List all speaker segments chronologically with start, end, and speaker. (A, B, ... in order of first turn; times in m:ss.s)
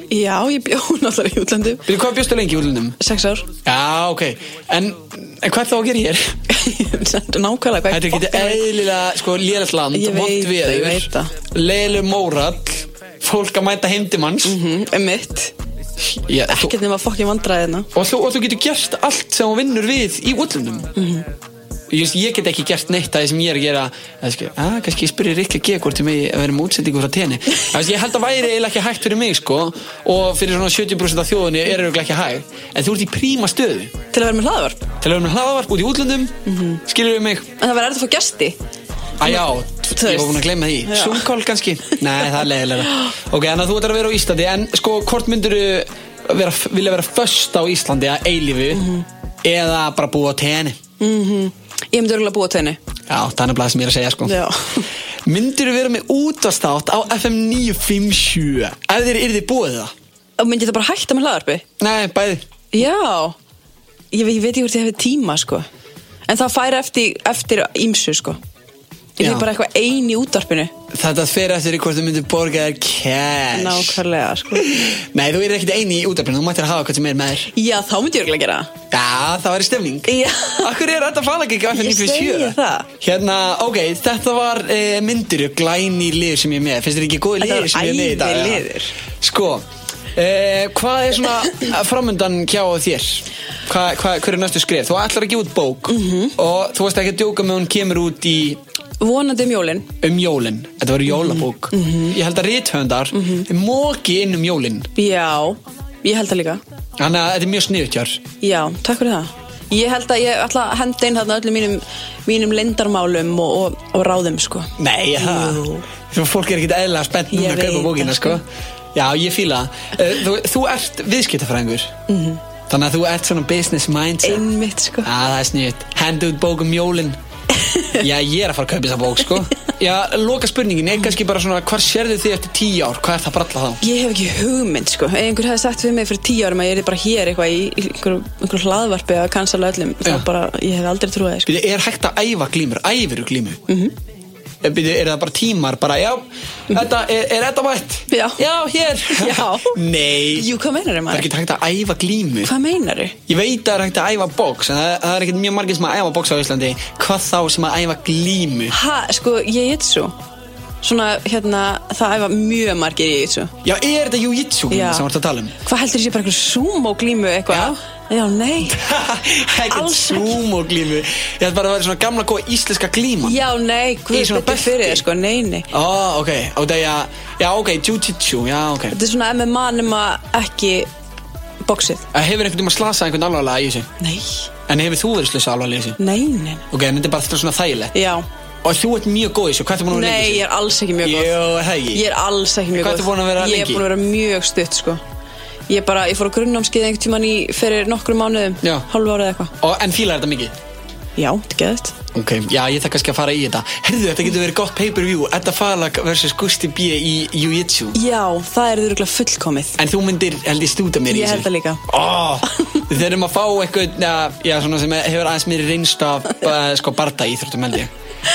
0:00.1-0:01.8 A
0:01.9-0:03.0 B
0:03.0-0:03.5 A
0:03.6-0:06.3 B
0:06.5-0:08.6 A
0:07.9-0:14.6 B
0:09.9-0:11.3 A
0:14.4-0:15.5 A
0:16.1-0:16.7 B
0:16.5-0:17.9 A
0:17.9-0:20.9 B
0:21.0-0:21.3 A
0:21.9-0:33.9 B
0:34.1-0:34.8 A
0:35.0-0:37.5 B
0:36.5-0:36.8 A
0:37.6-0:38.6 A
0:39.2-0:48.9 B
0:39.2-0:41.2 A
0:48.7-0:49.0 A
0:49.4-0:50.8 B
0:51.0-0:52.8 A
0:53.1-0:54.4 B
0:54.3-0:54.9 A
0:55.3-0:59.9 B
1:00.4-1:01.6 A
1:01.8-1:02.4 B
1:02.7-1:03.4 A
1:04.1-1:05.7 A
1:06.3-1:08.4 A
1:09.2-1:10.7 A
1:09.2-1:09.5 B
1:10.9-1:14.0 B
1:13.5-1:14.7 A
1:14.6-1:17.5 B
1:17.5-1:18.7 A
1:18.9-1:28.7 B
1:20.1-1:20.7 A
1:21.7-1:22.9 A
1:27.4-1:28.9 A
1:29.2-1:38.6 B
1:35.9-1:36.4 A
1:39.0-1:39.9 A
1:40.0-1:44.9 B
1:41.1-1:42.2 A
1:43.1-1:43.5 A
1:45.0-1:46.6 A
1:47.0-1:48.2 B
1:48.4-1:55.8 A
1:54.8-1:58.4 B
1:57.3-1:58.4 A
1:59.0-2:02.0 B
2:02.1-2:02.4 A
2:02.7-2:04.5 B
2:04.2-2:05.1 A
2:05.0-2:07.2 B
2:07.6-2:07.9 A
2:08.0-2:13.8 B
2:13.8-2:21.5 A
2:21.5-2:23.6 B
2:23.7-2:23.9 A
2:24.6-2:30.5 B
2:28.1-2:28.4 A
2:29.1-2:29.8 A
2:30.3-2:31.3 A
2:31.1-2:32.5 B
2:32.4-2:33.2 A
2:33.3-2:38.7 B
2:38.7-2:40.2 A
2:40.8-2:43.5 A
2:43.6-2:45.5 B
2:44.7-2:45.1 A
2:45.6-2:48.8 A
2:47.5-2:47.8 B
2:48.7-2:53.4 B
2:49.7-2:50.4 A
2:53.2-2:55.7 A
2:54.1-2:55.0 B
2:55.7-2:59.0 B
2:58.9-3:00.9 A
3:01.6-3:02.1 A
3:02.1-3:03.9 B
3:04.0-3:04.5 A
3:04.7-3:06.0 B
3:06.0-3:06.6 A
3:06.7-3:07.9 B
3:07.9-3:08.2 A
3:08.6-3:10.5 B
3:09.9-3:15.0 A
3:11.0-3:12.0 B
3:12.7-3:13.8 B
3:15.7-3:19.5 A
3:18.6-3:18.9 B
3:19.6-3:20.6 B
3:21.2-3:21.9 A
3:22.1-3:28.0 B
3:27.9-3:29.8 A
3:29.8-3:37.9 B
3:31.1-3:31.8 A